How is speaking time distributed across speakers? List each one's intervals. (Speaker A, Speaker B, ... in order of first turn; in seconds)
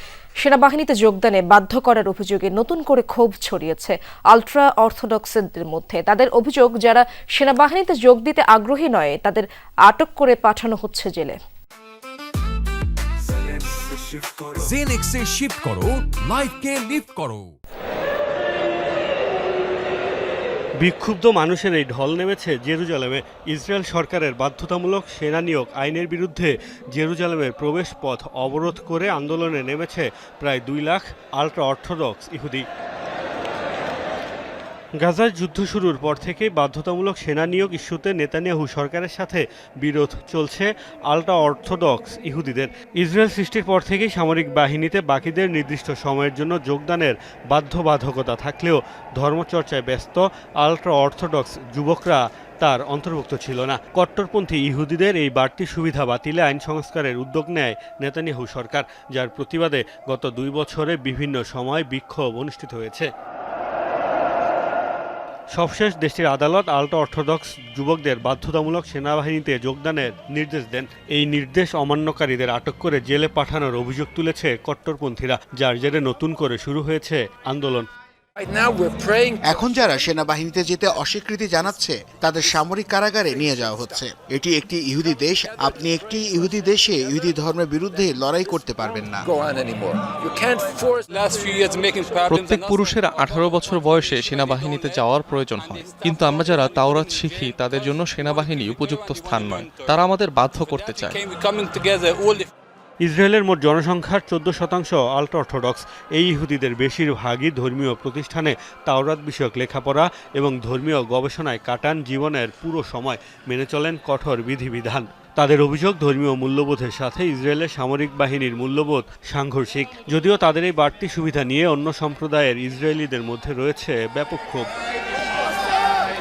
Speaker A: 0.4-11.4
Speaker B: 14.5-17.5
Speaker C: 20.8-32.6, 35.0-63.1, 65.5-77.9, 103.0-124.7
Speaker D: 78.4-79.9, 85.7-86.5, 89.2-91.0
Speaker E: 79.4-89.3
Speaker F: 91.1-99.9, 100.5-102.5
Speaker G: 92.3-101.2